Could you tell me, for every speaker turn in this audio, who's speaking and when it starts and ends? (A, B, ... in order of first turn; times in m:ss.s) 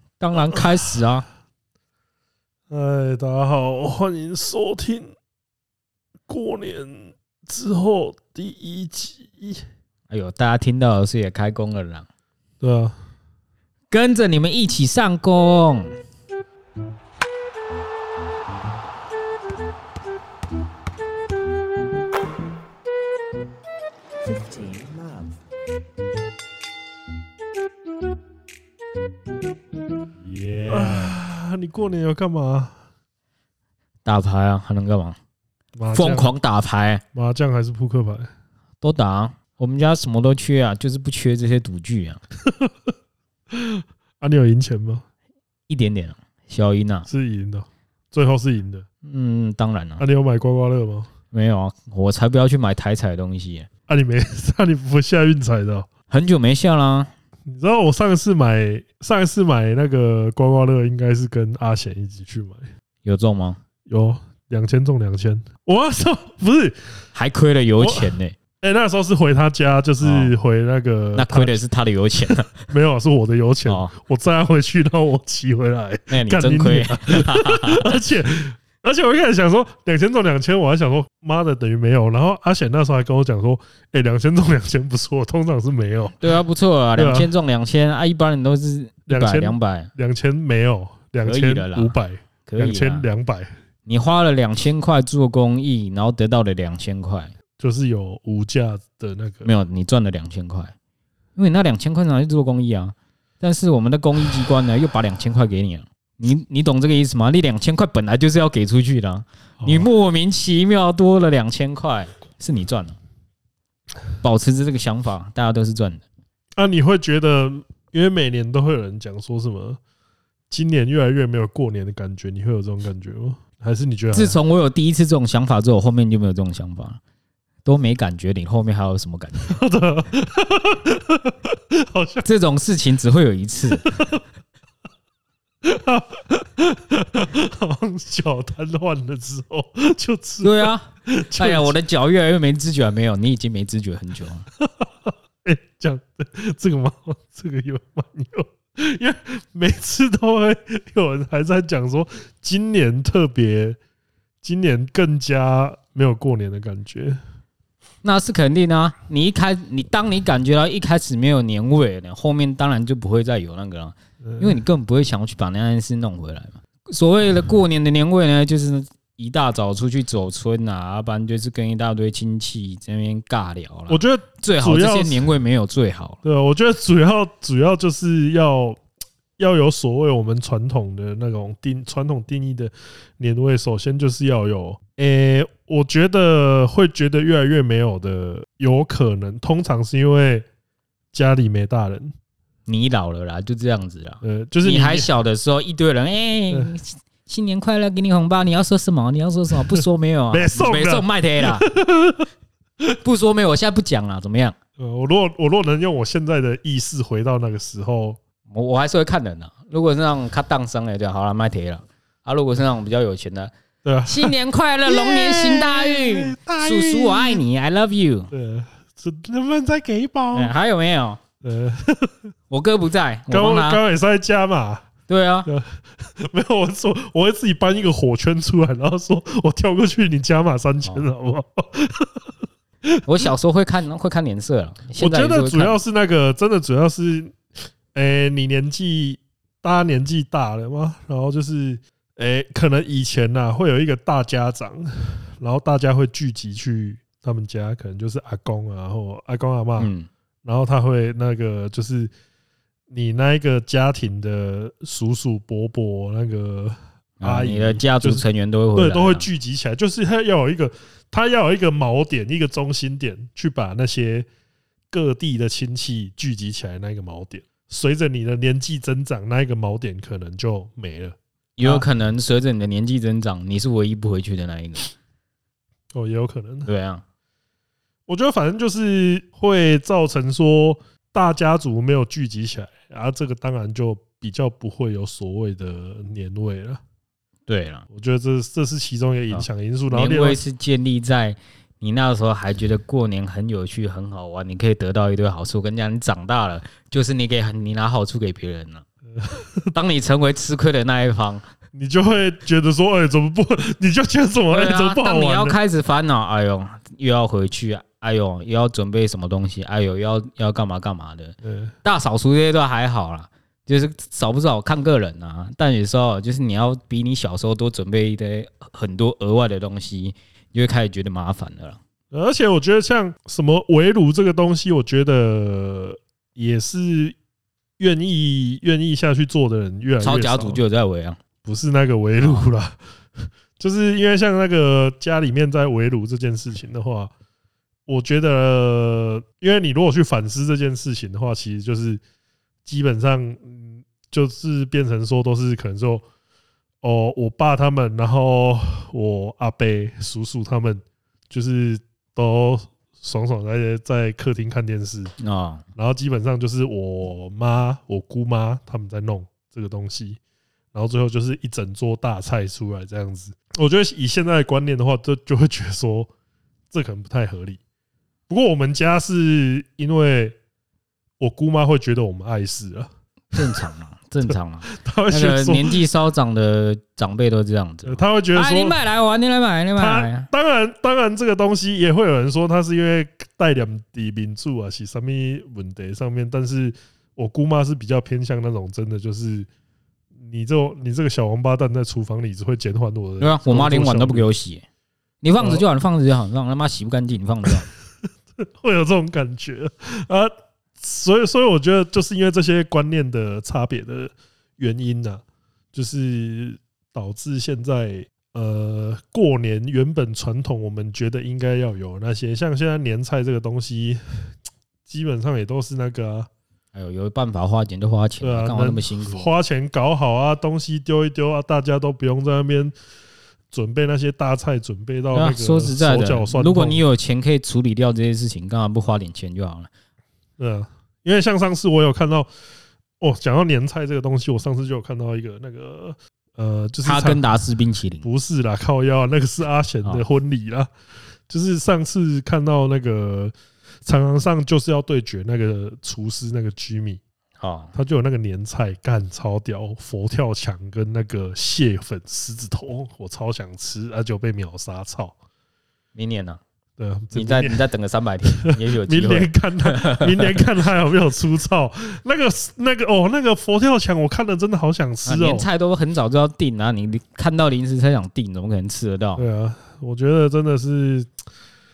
0:00.2-0:01.2 A
0:02.7-0:05.1 B
0:06.3-0:09.6 B
0:10.1-0:12.1 A
0:12.6-0:13.0 B
0:13.9-0:16.0 A
0:30.3-0:32.8 B
0:34.0-0:35.2 A
0:35.8-0:36.3 B
0:35.9-0:37.0 A
0:37.1-0:38.3 B
0:38.8-0:42.2 A
0:42.4-0:42.7 B
0:43.5-0:45.0 B
0:45.7-0:47.1 A
0:47.1-0:48.8 B
0:49.0-0:50.0 A
0:50.0-0:51.1 B
0:51.3-0:53.7 A
0:53.9-0:55.9 B
0:56.1-0:57.1 A
0:57.4-1:02.7 B
1:03.0-1:03.6 A
1:03.8-1:06.8 B
1:07.1-1:08.3 A
1:07.8-1:11.6 B
1:10.0-1:10.3 A
1:11.1-1:12.5 A
1:12.3-1:26.2 B
1:13.6-1:13.9 A
1:16.1-1:17.9 A
1:26.2-1:29.9 A
1:27.0-1:27.3 B
1:29.1-1:33.5 B
1:31.2-1:33.0 A
1:33.8-1:37.3 A
1:37.6-1:39.5 B
1:39.4-1:40.7 A
1:41.4-1:53.0 A
1:49.6-1:49.9 B
1:54.2-1:56.0 A
1:56.6-1:59.8 B
2:00.5-2:04.4 B
2:04.1-2:07.0 A
2:07.6-2:09.6 A
2:09.5-2:12.2 B
2:12.2-2:14.0 A
2:15.6-2:21.8 B
2:20.4-2:24.4 A
2:24.6-2:33.8 B
2:34.4-2:37.2 B
2:38.0-2:56.2 A
2:44.2-2:44.6 B
2:53.9-2:55.3 B
2:56.2-2:58.8 B
2:59.4-3:10.4 B
3:11.1-3:12.1 B
3:12.7-3:21.6 A
3:14.2-3:15.1 B
3:19.8-3:22.3 B
3:23.0-3:24.6 A
3:24.8-3:28.2 B
3:28.5-3:33.5 A
3:33.8-3:37.4 B
3:34.0-3:38.3 A
3:38.3-3:40.5 B
3:40.3-3:41.2 A
3:41.4-3:42.2 B
3:42.5-3:43.8 A
3:43.3-3:44.9 B
3:45.1-3:45.5 A
3:45.4-3:52.3 B
3:52.8-3:53.3 B
3:53.0-3:55.8 A
3:54.9-3:57.4 B
3:57.9-4:09.9 B
4:09.8-4:10.1 A
4:10.4-4:12.1 B
4:12.9-4:24.3 B
4:17.2-4:19.3 A
4:24.9-4:31.8 B
4:31.6-4:34.9 A
4:35.9-4:36.7 B
4:36.6-4:37.0 A
4:38.1-4:46.8 B
4:47.5-4:47.8 A
4:47.9-4:50.4 B
4:49.3-4:58.8 A
4:59.2-4:59.7 B
4:59.7-5:01.5 A
5:01.7-5:05.6 B
5:04.5-5:21.8 A
5:11.4-5:11.7 B
5:22.1-5:27.2 B
5:27.8-5:30.6 B
5:30.0-5:31.2 A
5:31.4-5:37.1 B
5:32.2-5:32.4 A
5:37.9-5:42.0 B
5:42.6-5:46.0 B
5:46.8-5:55.1 B
5:55.2-5:55.6 A
5:55.8-6:00.2 B
6:00.7-6:06.1 B
6:06.7-6:07.6 B
6:08.3-6:10.4 B
6:11.2-6:13.6 B
6:13.3-6:20.3 A
6:14.2-6:15.8 B
6:17.8-6:18.8 B
6:19.8-6:29.5 B
6:30.2-6:34.3 B
6:33.2-6:34.6 A
6:35.2-6:37.7 A
6:35.4-6:35.6 B
6:38.4-6:45.2 B
6:45.7-6:54.3 B
6:54.9-6:56.3 B
6:56.7-6:59.3 A
6:58.2-7:02.7 B
7:03.5-7:06.8 B
7:05.1-7:09.7 A
7:10.4-7:12.3 B
7:13.0-7:17.3 B
7:16.8-7:18.0 A
7:18.0-7:20.7 B
7:21.3-7:27.0 B
7:27.4-7:27.7 A
7:27.7-7:35.1 B
7:35.9-7:36.4 A
7:36.8-7:37.6 B
7:37.1-7:40.4 A
7:38.3-7:45.4 B
7:45.0-7:49.2 A
7:49.2-7:51.1 B